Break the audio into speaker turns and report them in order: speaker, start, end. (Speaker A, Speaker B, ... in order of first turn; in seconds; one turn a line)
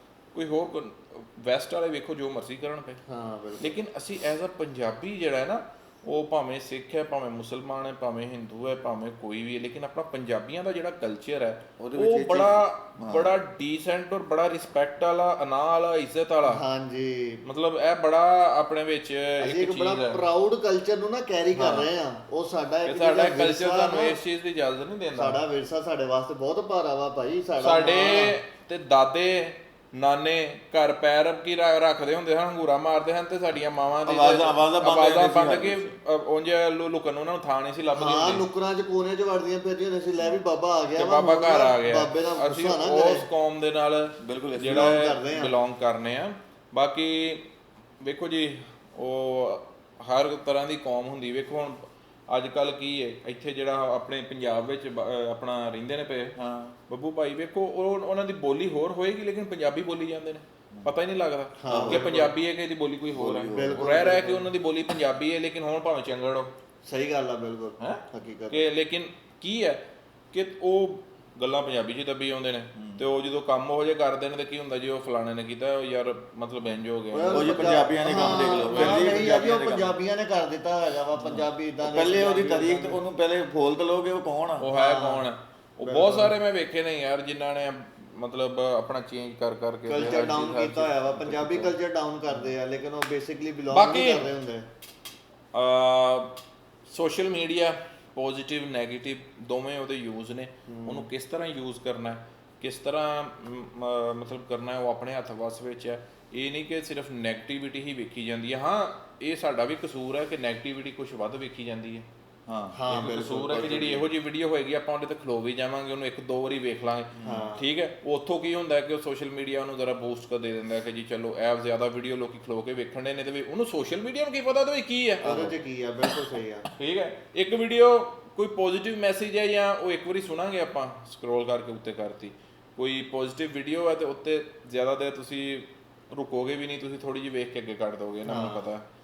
Speaker A: 0.3-3.0
Speaker B: 3.1-3.7
Speaker A: 3.6-16.6
Speaker C: 11.8-13.3
Speaker B: 16.4-17.4
Speaker A: 17.4-20.2
Speaker B: 19.4-24.2
Speaker A: 21.5-21.9
Speaker A: 22.8-25.4
Speaker B: 25.1-28.3
Speaker A: 27.6-38.4
Speaker C: 34.0-35.9
Speaker B: 37.9-43.3
Speaker A: 41.0-47.5
Speaker C: 44.2-44.9
Speaker B: 44.6-45.5
Speaker A: 48.0-56.3
Speaker C: 56.4-56.7
Speaker A: 56.9-66.5
Speaker B: 61.6-62.3
Speaker C: 61.7-62.3
Speaker C: 63.1-63.9
Speaker B: 63.5-64.5
Speaker B: 66.8-68.6
Speaker A: 67.8-77.6
Speaker C: 72.8-73.0
Speaker B: 77.1-83.0
Speaker C: 77.3-80.0
Speaker A: 78.3-79.1
Speaker C: 81.2-84.7
Speaker A: 84.6-91.7
Speaker B: 84.7-85.2
Speaker B: 85.8-86.3
Speaker B: 89.9-94.7
Speaker A: 93.7-94.3
Speaker A: 95.5-96.3
Speaker A: 96.9-112.0
Speaker B: 100.7-101.1
Speaker C: 112.5-114.0
Speaker B: 112.7-113.8
Speaker A: 112.9-125.3
Speaker C: 117.2-117.5
Speaker B: 117.2-117.6
Speaker C: 125.2-125.5
Speaker B: 125.2-126.7
Speaker A: 126.8-138.8
Speaker B: 138.2-138.7